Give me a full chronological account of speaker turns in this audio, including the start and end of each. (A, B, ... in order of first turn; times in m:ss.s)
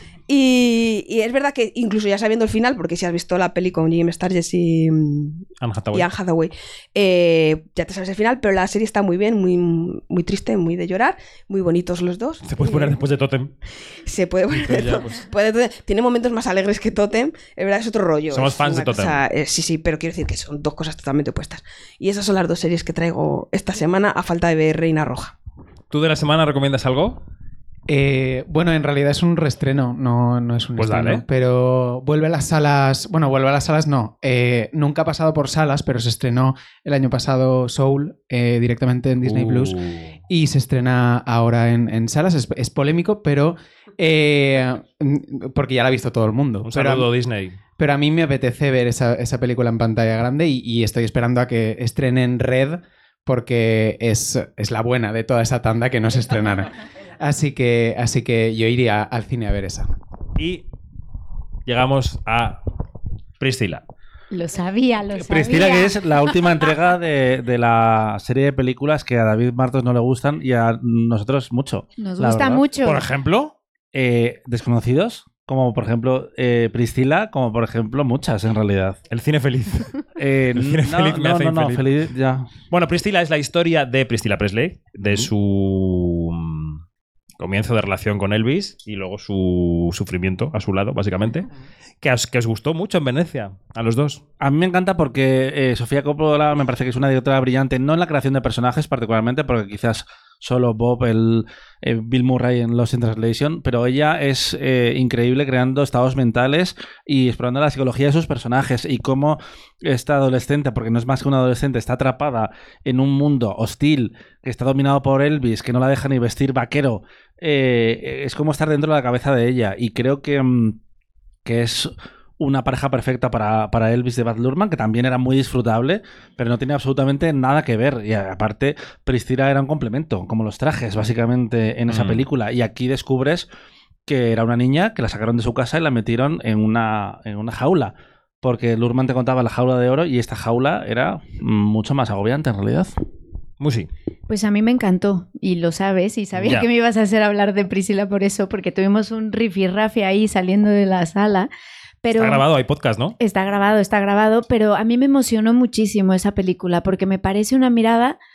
0:00.3-0:13.0 A
0:05.6-0:06.1 B
0:12.4-0:13.5 B
0:14.0-0:25.3 A
0:14.5-0:15.2 B
0:18.3-0:19.2 B
0:25.9-0:27.2 B
0:27.9-0:39.8 C
0:30.8-0:31.2 B
0:39.2-0:40.1 B
0:40.3-0:47.1 C
0:46.6-0:47.6 B
0:47.8-0:56.7 C
0:57.2-0:59.9 C
1:00.4-1:00.6 B
1:01.6-1:02.6 B
1:03.4-1:03.8 B
1:04.3-1:05.9 D
1:05.1-1:12.6 E
1:12.0-1:13.1 D
1:12.8-1:13.5 B
1:13.9-1:19.0 E
1:19.1-1:19.9 B
1:20.2-1:22.5 E
1:20.6-1:21.9 B
1:22.7-1:26.8 B
1:27.4-1:31.5 B
1:32.0-1:34.2 B
1:34.4-2:00.8 E
2:01.4-2:13.5 E
2:11.9-2:12.3 B
2:14.1-2:22.9 E
2:23.6-2:23.9 B
2:24.3-2:31.5 D
2:26.4-2:26.6 B
2:32.0-2:32.4 D
2:32.1-2:33.2 B
2:33.2-2:38.2 D